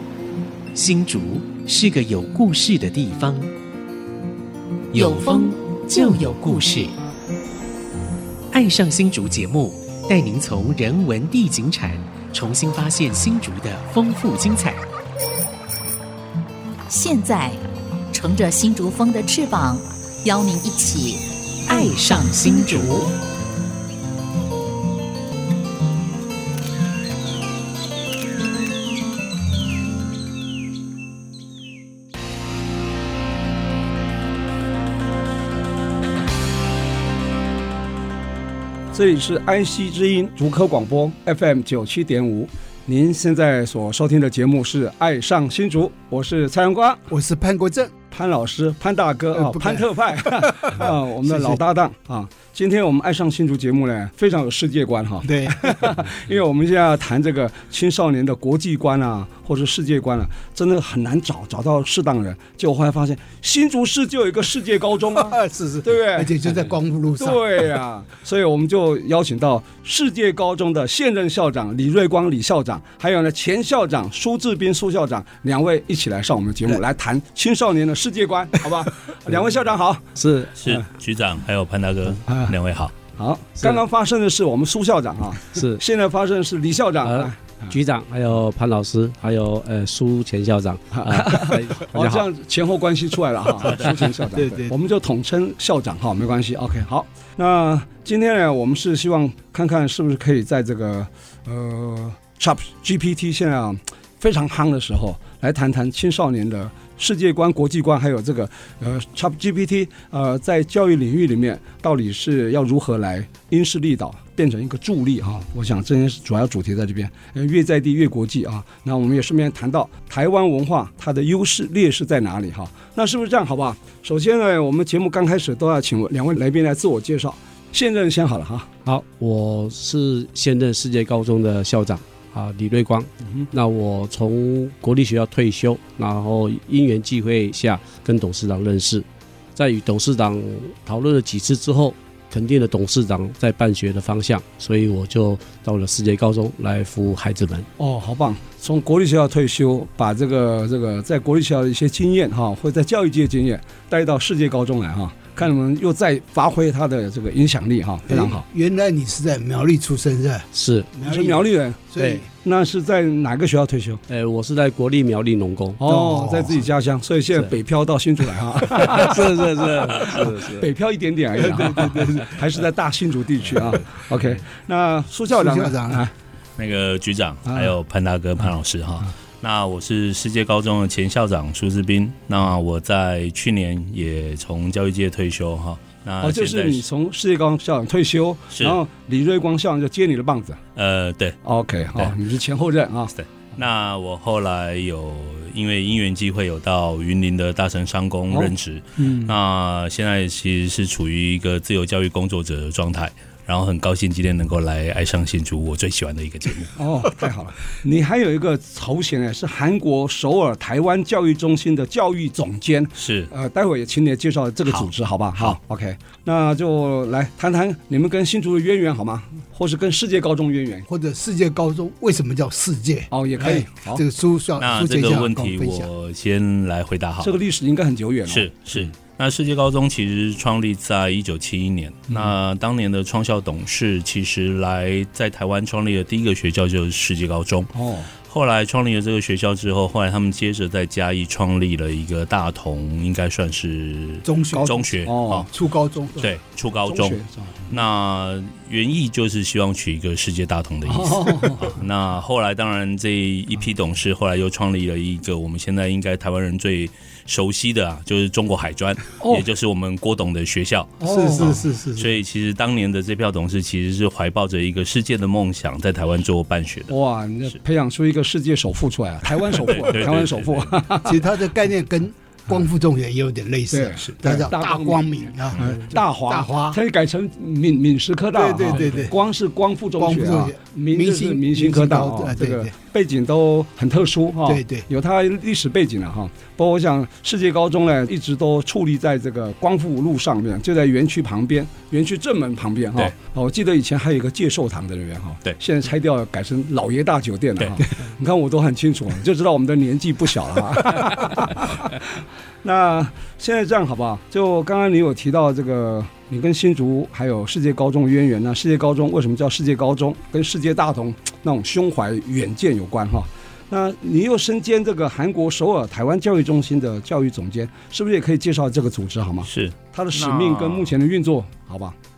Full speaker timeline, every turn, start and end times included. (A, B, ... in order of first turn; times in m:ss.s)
0:00.7-0:03.5 A
0:04.9-0:07.0 A
0:04.9-0:06.8 B
0:08.5-0:14.9 A
0:16.9-0:17.6 B
0:18.1-0:23.1 B
0:21.7-0:23.1 A
0:38.9-0:47.0 C
0:47.1-0:47.9 D
0:48.1-1:06.4 C
0:49.3-0:51.6 D
0:55.2-0:55.9 D
1:05.1-1:07.8 D
1:07.2-1:20.1 C
1:20.2-1:20.8 E
1:20.6-1:23.0 F
1:23.2-1:27.8 C
1:25.5-1:25.8 E
1:27.0-1:32.3 E
1:31.0-2:08.7 C
1:34.3-1:34.7 D
2:08.8-2:27.7 E
2:27.8-2:38.4 C
2:38.1-2:42.3 D
2:40.5-2:40.9 E
2:41.0-2:41.8 C
2:42.0-2:42.2 E
2:42.4-2:44.0 C
2:44.1-2:45.8 E
2:45.8-2:56.1 C
2:45.8-2:46.7 D
2:48.6-2:50.7 E
2:51.4-2:52.4 D
2:55.3-2:56.1 D
2:56.6-3:06.9 F
2:57.5-2:57.7 C
3:06.2-3:10.6 C
3:08.5-3:08.8 F
3:10.8-3:11.4 F
3:11.4-3:13.1 C
3:13.1-3:26.8 F
3:18.3-3:19.3 C
3:26.8-3:40.9 C
3:33.0-3:33.3 F
3:34.7-3:35.6 F
3:40.9-3:45.9 D
3:43.1-3:44.0 C
3:44.6-3:47.4 F
3:47.2-3:48.9 C
3:48.3-4:05.5 F
3:57.8-3:58.1 C
4:04.2-4:04.9 D
4:04.5-4:05.5 C
4:05.4-4:06.4 D
4:06.2-4:21.0 F
4:06.9-4:07.6 C
4:10.9-4:11.8 C
4:21.0-4:21.6 C
4:21.0-4:22.2 D
4:22.0-4:27.0 F
4:26.9-4:31.2 C
4:29.3-4:30.8 F
4:31.0-4:36.8 D
4:33.7-4:35.0 C
4:35.6-5:22.0 C
4:38.3-4:39.2 D
4:40.0-4:42.7 D
4:44.4-4:44.9 D
4:57.6-4:57.8 F
5:19.5-5:21.0 F